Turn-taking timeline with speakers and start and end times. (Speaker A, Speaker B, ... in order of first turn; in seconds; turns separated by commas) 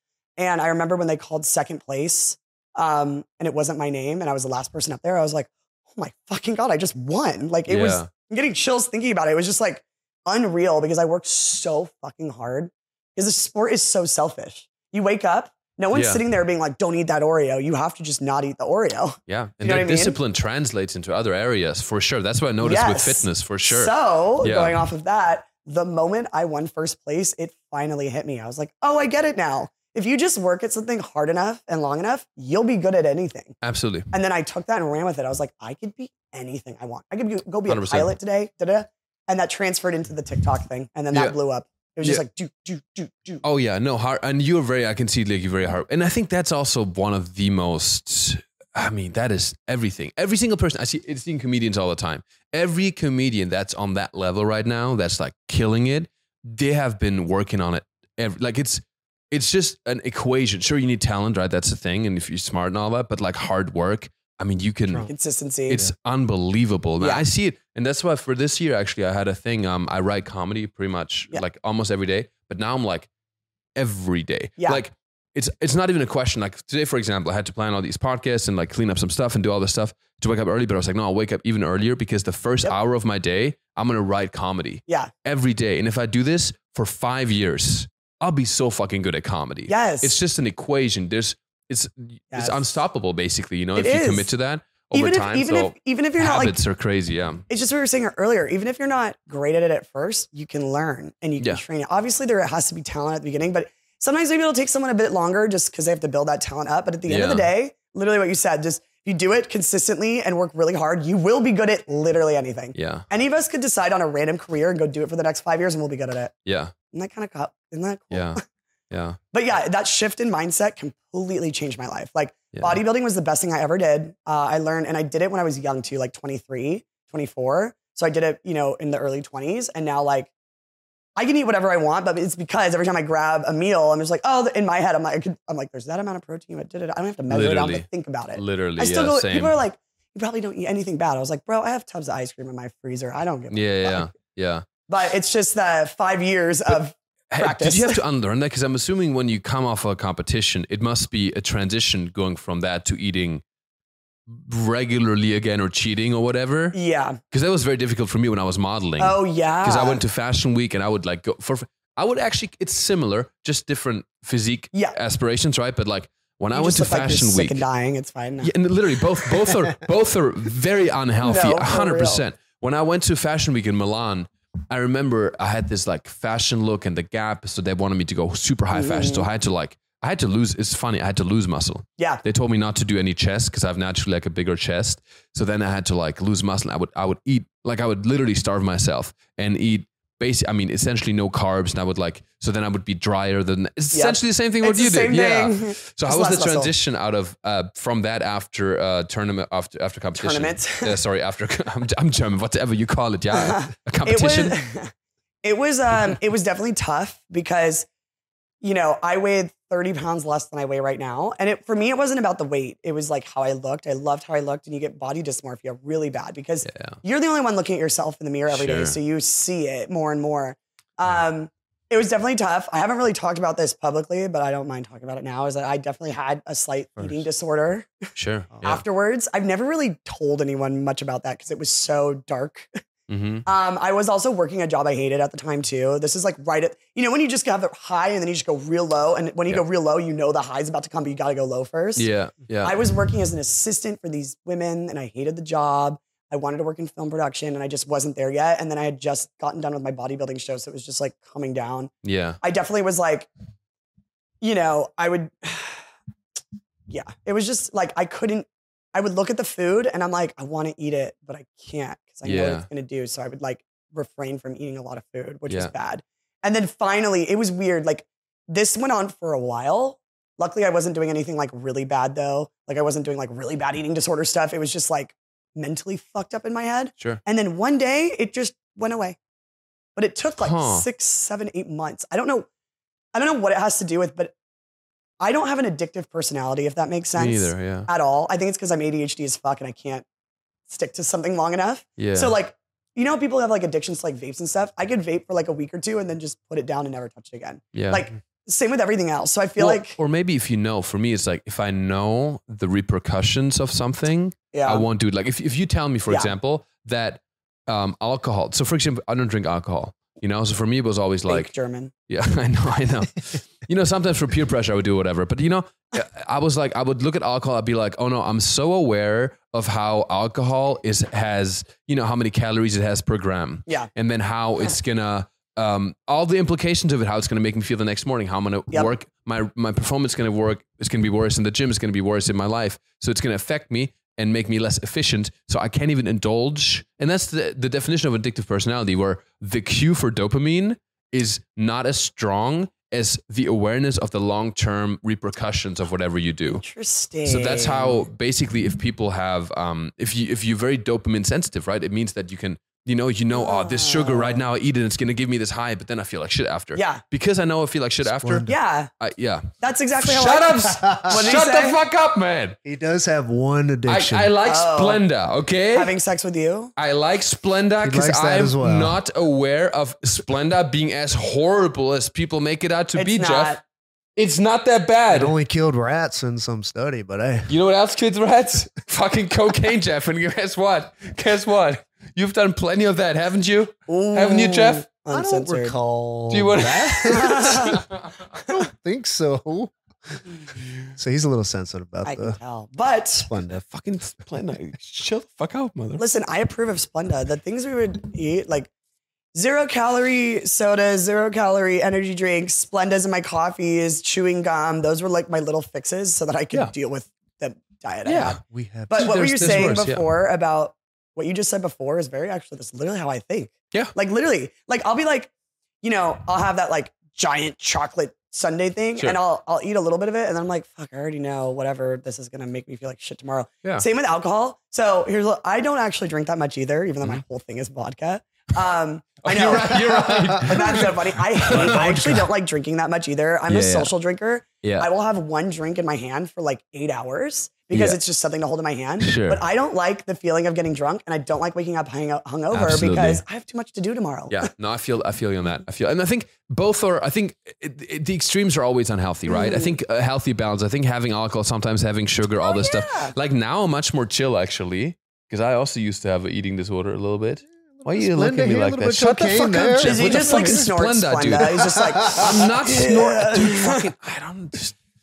Speaker A: 0.4-20.2, Speaker B: 7.7-8.1, Speaker B: 15.9-16.2, Speaker B: 19.3-24.8, Speaker A: 22.6-33.5, Speaker B: 33.6-34.1, Speaker A: 34.1-43.4, Speaker B: 37.7-38.1, Speaker B: 43.4-65.1, Speaker A: 65.0-65.8, Speaker B: 65.7-73.1, Speaker A: 67.0-67.2, Speaker B: 73.8-97.4, Speaker A: 89.7-90.2, Speaker A: 92.3-92.7, Speaker A: 93.8-94.3, Speaker A: 94.9-96.6, Speaker A: 97.5-116.3, Speaker B: 107.1-107.5, Speaker B: 112.7-113.0, Speaker B: 116.5-116.7, Speaker A: 116.9-118.4, Speaker B: 118.1-119.2, Speaker A: 119.3-130.3, Speaker B: 122.5-122.8, Speaker A: 131.2-144.1, Speaker B: 137.3-139.6, Speaker B: 143.5-144.7, Speaker A: 144.9-148.0, Speaker B: 147.3-153.4, Speaker B: 154.3-156.8, Speaker A: 156.7-157.2, Speaker B: 157.3-167.6, Speaker A: 159.0-160.0, Speaker A: 166.5-168.5, Speaker B: 168.4-204.6, Speaker A: 171.2-172.2, Speaker A: 178.7-179.3, Speaker A: 193.9-196.7, Speaker A: 200.2-201.0, Speaker A: 203.3-204.9, Speaker A: 205.4-207.9, Speaker A: 208.6-228.0, Speaker B: 216.7-217.0, Speaker B: 218.5-219.0, Speaker C: 227.0-227.2, Speaker B: 228.1-228.8, Speaker A: 228.6-232.7, Speaker B: 233.1-233.4, Speaker A: 233.4-242.1, Speaker B: 241.9-242.8, Speaker A: 242.6-253.3, Speaker B: 252.0-252.4, Speaker A: 254.4-255.9, Speaker A: 256.9-279.2, Speaker B: 262.2-262.7, Speaker B: 265.5-265.7, Speaker A: 279.9-282.5, Speaker B: 280.4-280.9, Speaker A: 283.1-284.3, Speaker A: 285.2-290.0, Speaker B: 287.2-287.9, Speaker A: 290.7-300.0, Speaker B: 292.0-292.3, Speaker B: 297.7-298.1, Speaker B: 299.6-311.5, Speaker A: 304.5-304.9, Speaker A: 311.3-311.9, Speaker B: 312.1-346.6, Speaker A: 346.5-348.1, Speaker B: 347.2-358.5, Speaker A: 353.3-354.4, Speaker A: 356.7-357.0, Speaker C: 358.0-358.6, Speaker A: 358.5-358.9, Speaker B: 359.0-362.6, Speaker A: 359.6-361.8, Speaker C: 360.8-361.1, Speaker C: 362.6-364.3, Speaker B: 363.9-365.9, Speaker A: 364.4-365.0, Speaker A: 365.7-366.7, Speaker B: 366.8-373.6, Speaker C: 367.8-369.0, Speaker A: 372.9-373.6, Speaker B: 374.1-375.3, Speaker C: 375.1-377.5, Speaker B: 377.5-384.9, Speaker A: 383.9-385.8, Speaker C: 385.1-387.8, Speaker B: 386.3-388.2, Speaker A: 387.0-387.8, Speaker C: 388.5-390.2, Speaker C: 390.9-392.4, Speaker A: 392.0-393.3, Speaker C: 393.2-393.6, Speaker B: 393.5-396.0, Speaker A: 396.0-398.7, Speaker A: 399.3-415.3, Speaker B: 408.0-408.4, Speaker C: 408.5-409.8, Speaker B: 408.9-410.1, Speaker A: 415.8-444.4, Speaker B: 429.2-432.3, Speaker B: 433.5-433.9, Speaker B: 434.6-434.9, Speaker B: 437.7-438.0, Speaker B: 439.0-439.4, Speaker B: 442.5-443.2, Speaker B: 444.3-464.8, Speaker A: 449.3-449.7, Speaker A: 452.4-453.1, Speaker C: 457.6-460.7, Speaker A: 459.8-463.9, Speaker C: 461.4-462.3